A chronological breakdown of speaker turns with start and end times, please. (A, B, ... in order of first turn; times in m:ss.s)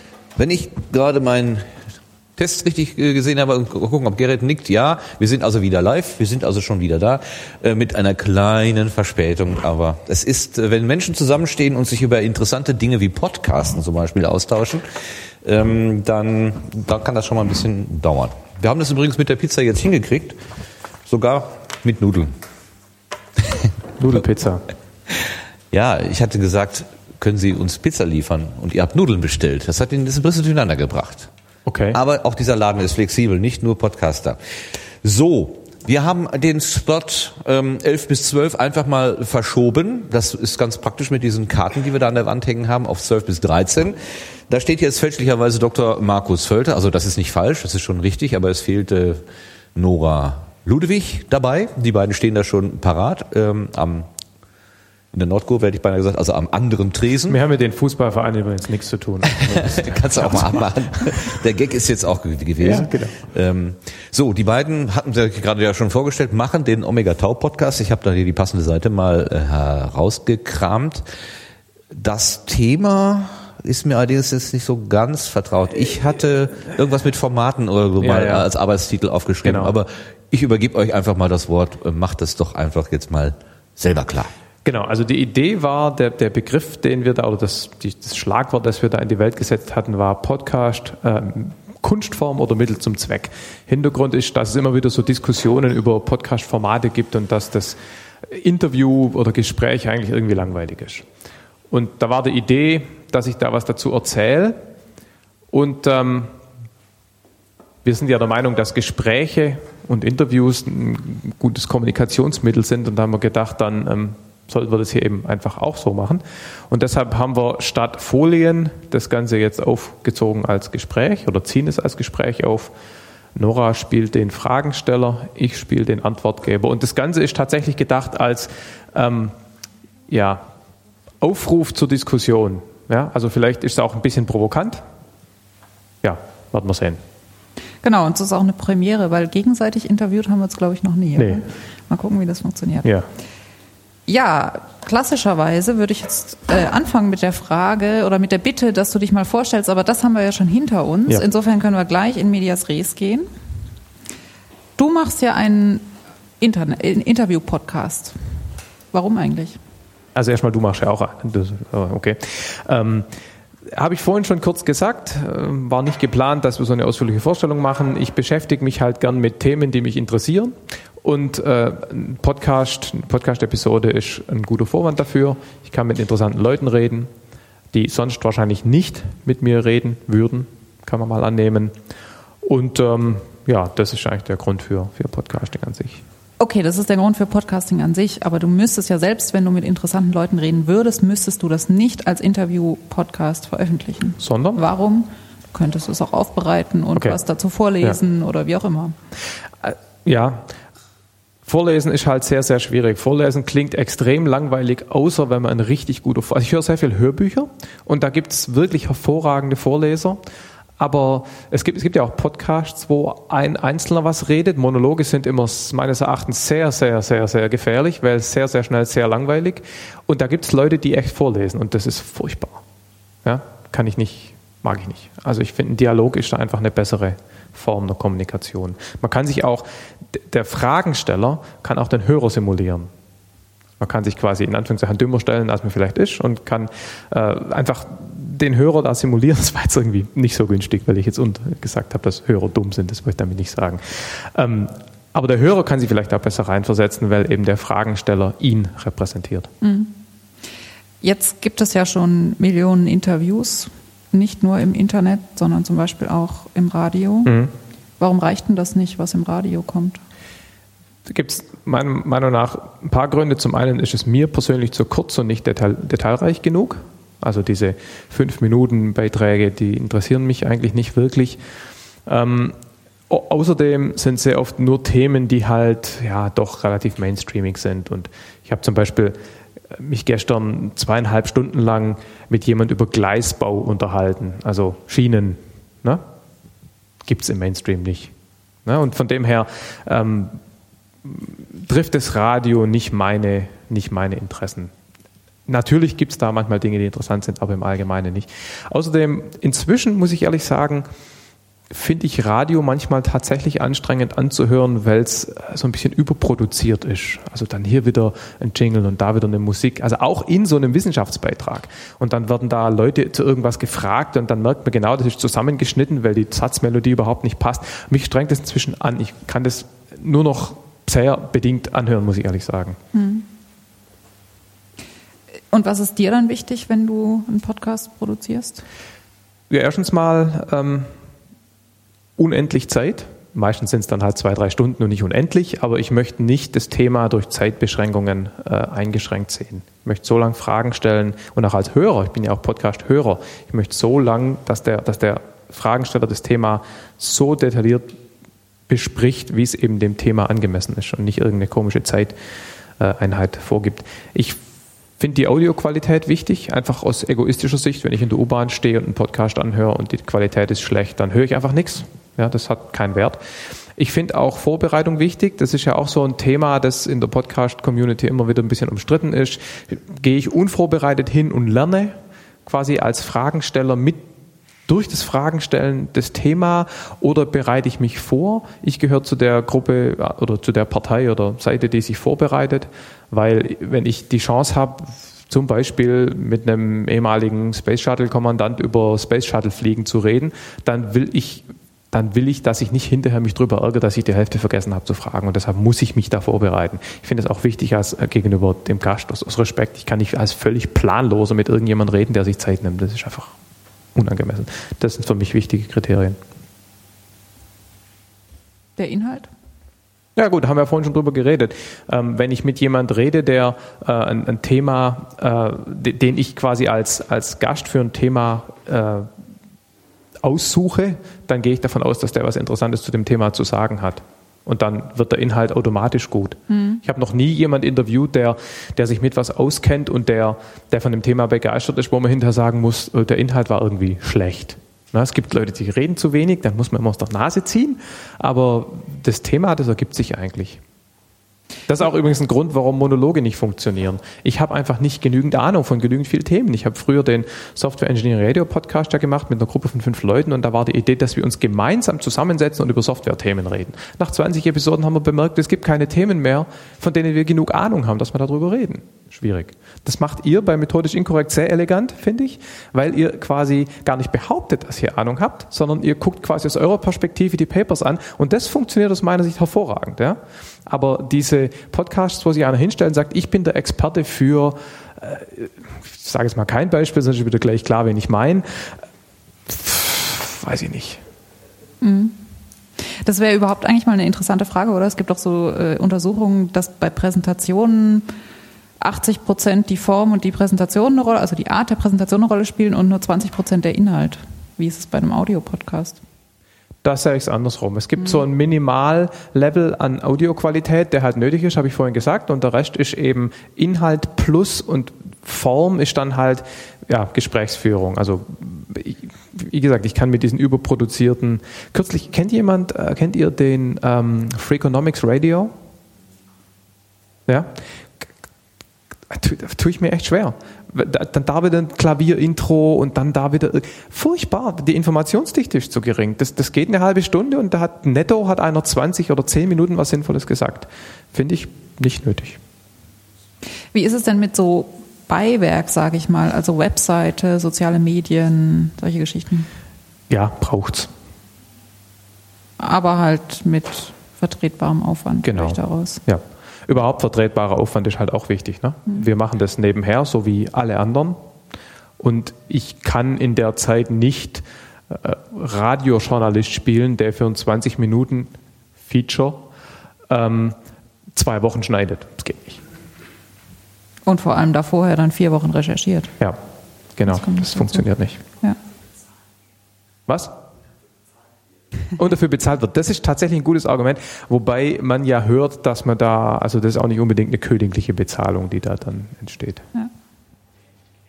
0:00.4-0:01.7 A
0:02.4-0:14.8 A
0:15.4-0:20.4 A
0:21.0-0:22.4 A
0:24.0-0:24.6 B
0:25.1-0:31.3 A
0:31.6-0:32.0 B
0:31.9-0:34.4 A
0:35.0-0:44.0 A
0:44.5-0:49.2 A
0:49.8-0:54.1 A
0:55.1-0:57.4 A
0:57.3-1:00.6 B
0:59.3-1:11.0 A
1:02.6-1:03.2 B
1:11.9-1:24.3 A
1:18.0-1:18.5 B
1:19.4-1:19.7 B
1:24.6-1:41.1 B
1:41.7-1:44.6 B
1:45.5-1:46.3 B
1:47.8-2:02.7 B
2:03.3-2:09.3 B
2:10.1-2:10.5 B
2:11.2-2:14.8 B
2:16.0-2:17.0 B
2:17.8-2:22.9 C
2:21.2-2:21.4 B
2:24.1-2:33.3 C
2:34.8-2:35.9 C
2:36.4-2:38.2 C
2:38.9-2:39.6 C
2:40.2-2:43.1 B
2:43.7-2:57.1 B
2:57.7-3:01.7 B
3:02.4-3:06.0 B
3:06.4-3:18.9 C
3:14.2-3:14.6 B
3:19.6-3:20.5 B
3:21.5-3:30.2 B
3:30.8-3:42.6 B
3:43.2-3:52.9 B
3:53.8-4:09.5 B
4:09.6-4:10.0 C
4:11.0-4:17.3 C
4:17.2-4:17.5 B
4:18.0-4:20.0 C
4:21.1-4:31.4 B
4:32.0-4:32.6 B
4:33.1-4:39.2 B
4:39.7-4:46.0 B
4:47.0-4:48.1 B
4:48.6-4:50.4 B
4:51.0-4:54.7 B
4:55.5-5:00.9 B
5:01.7-5:22.8 B
5:22.9-5:23.2 C
5:25.5-5:28.6 C
5:29.5-5:30.9 B
5:32.2-5:48.0 B
5:48.7-5:52.1 B
5:52.8-5:54.4 B
5:55.0-6:03.2 B
6:03.8-6:14.0 B
6:14.7-6:43.3 B
6:43.9-6:46.2 B
6:48.8-6:49.3 C
6:50.2-6:59.1 B
7:00.2-7:20.6 B
7:06.5-7:06.8 C
7:21.7-7:58.7 B
7:59.5-8:01.0 B
8:01.8-8:02.2 C
8:02.8-8:08.1 C
8:08.8-8:16.0 C
8:16.8-8:35.5 B
8:18.0-8:18.2 C
8:37.3-8:38.1 B
8:39.1-8:52.4 B
8:53.7-8:59.5 C
9:00.1-9:00.9 B
9:02.6-9:06.0 C
9:05.2-9:11.2 B
9:12.0-9:19.5 B
9:20.1-9:20.6 B
9:21.2-9:22.6 B
9:24.0-9:26.1 C
9:27.0-9:28.2 B
9:27.1-9:27.9 C
9:30.1-9:30.3 B
9:32.0-9:39.6 B